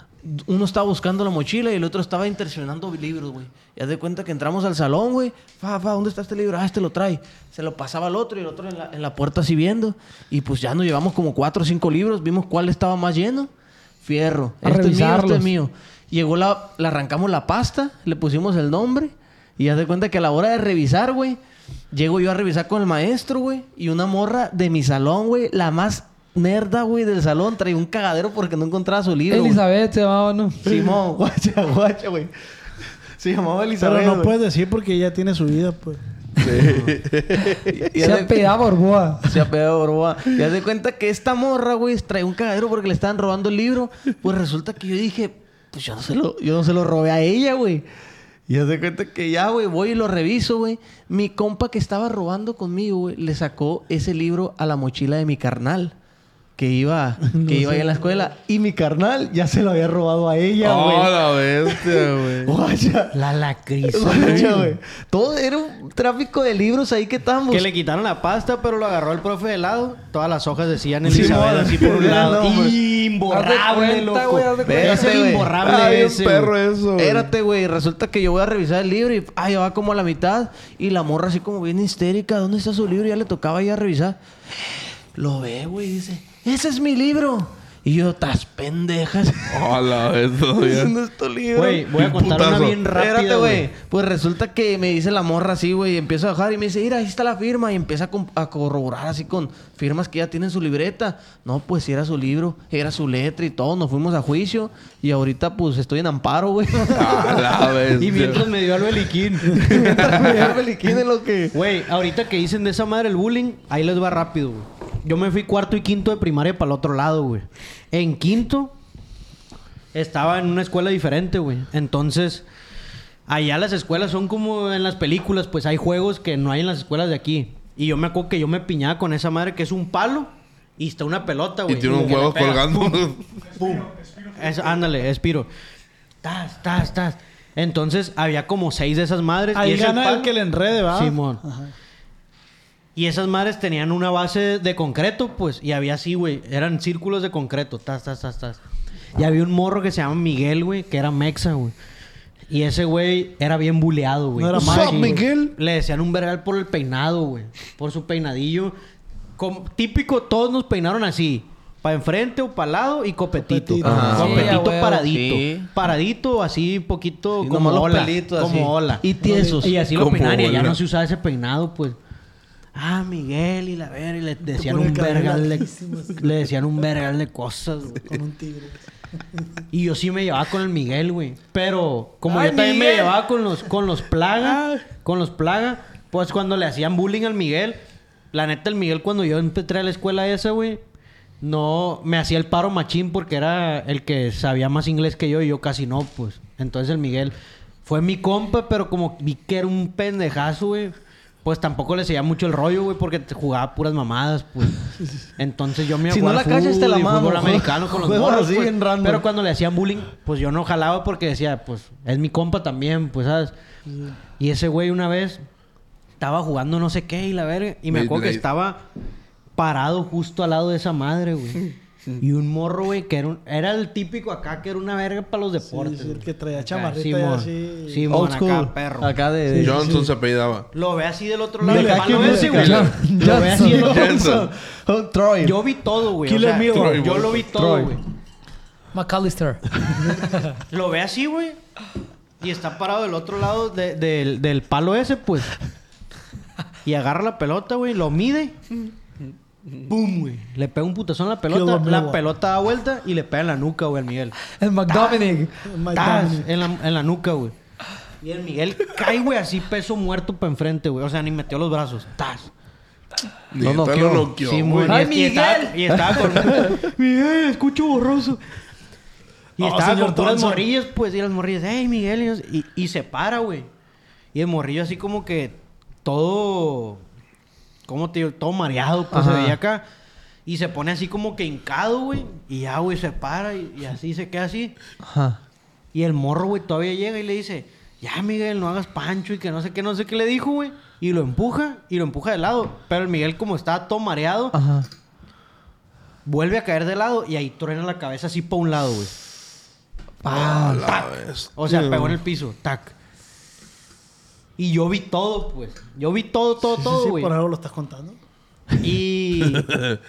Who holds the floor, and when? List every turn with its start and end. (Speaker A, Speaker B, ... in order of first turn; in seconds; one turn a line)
Speaker A: 0.2-13.5
Speaker A: 14.0-21.4
Speaker B: 14.6-15.5
Speaker A: 21.9-29.6
Speaker B: 29.3-30.8
Speaker A: 30.6-32.3
Speaker A: 33.1-34.3
Speaker C: 33.8-36.0
Speaker D: 36.4-37.6
Speaker A: 36.6-36.9
Speaker A: 37.5-38.5
Speaker B: 38.0-39.3
Speaker A: 39.2-47.9
Speaker A: 48.5-55.9
Speaker A: 56.6-61.1
Speaker C: 57.3-58.3
Speaker D: 60.6-62.5
Speaker A: 61.6-63.2
Speaker E: 63.1-64.8
Speaker A: 63.9-67.7
Speaker E: 67.5-76.5
Speaker D: 71.1-72.6
Speaker A: 71.1-72.8
Speaker B: 73.3-75.1
Speaker A: 74.7-75.6
Speaker D: 75.6-77.3
Speaker A: 77.0-90.0
Speaker D: 89.5-90.9
Speaker A: 90.5-92.2
Speaker E: 91.5-93.7
Speaker D: 92.0-92.8
Speaker A: 92.8-107.5
Speaker D: 106.9-108.4
Speaker E: 108.0-111.0
Speaker A: 109.5-111.6
Speaker D: 109.8-110.3
Speaker E: 111.5-118.7
Speaker E: 119.9-122.4
Speaker E: 123.3-135.5
Speaker D: 131.7-133.2
Speaker C: 131.9-132.3
Speaker C: 133.5-134.9
Speaker E: 136.2-140.3
Speaker C: 139.5-141.7
Speaker E: 140.9-141.4
Speaker E: 142.9-148.6
Speaker E: 149.2-151.7
Speaker E: 152.5-158.7
Speaker C: 154.4-155.4
Speaker A: 154.6-155.0
Speaker D: 154.7-155.2
Speaker E: 159.4-172.0
Speaker C: 163.3-164.4
Speaker A: 163.8-165.7
Speaker D: 163.9-164.2
Speaker B: 164.2-165.0
Speaker A: 167.4-169.8
Speaker C: 169.2-169.6
Speaker D: 169.9-170.8
Speaker E: 172.7-178.1
Speaker C: 174.5-176.3
Speaker C: 178.0-178.8
Speaker E: 179.7-187.8
Speaker B: 182.3-183.1
Speaker E: 188.3-190.8
Speaker E: 191.4-213.5
Speaker A: 206.1-209.2
Speaker E: 214.4-215.4
Speaker E: 216.2-218.8
Speaker D: 217.9-218.4
Speaker E: 219.6-229.2
Speaker C: 225.6-228.1
Speaker A: 228.1-229.9
Speaker C: 229.5-230.1
Speaker D: 229.6-230.7
Speaker E: 230.7-234.5
Speaker C: 231.6-232.7
Speaker A: 231.7-232.8
Speaker B: 232.3-233.9
Speaker D: 232.5-233.0
Speaker D: 233.7-234.5
Speaker A: 234.8-235.6
Speaker E: 235.4-238.0
Speaker C: 236.2-237.2
Speaker D: 236.7-237.6
Speaker A: 237.5-237.9
Speaker B: 238.9-240.3
Speaker E: 240.7-241.6
Speaker E: 242.4-245.5
Speaker E: 246.8-248.6
Speaker E: 249.8-254.4
Speaker C: 251.5-252.2
Speaker B: 254.5-255.5
Speaker C: 255.6-256.4
Speaker E: 255.9-257.5
Speaker E: 258.2-262.5
Speaker D: 263.5-264.9
Speaker A: 263.6-264.8
Speaker E: 264.4-268.4
Speaker B: 264.9-266.2
Speaker E: 269.6-273.7
Speaker C: 269.6-270.6
Speaker E: 274.3-277.0
Speaker E: 277.9-279.8
Speaker A: 279.1-279.6
Speaker E: 280.4-284.7
Speaker A: 285.0-285.4
Speaker E: 285.9-294.6
Speaker A: 294.5-294.9
Speaker E: 296.2-299.1
Speaker D: 300.2-302.1
Speaker E: 300.2-301.0
Speaker E: 301.6-302.9
Speaker E: 304.6-307.3
Speaker C: 306.6-308.2
Speaker E: 308.8-309.7
Speaker D: 309.6-310.0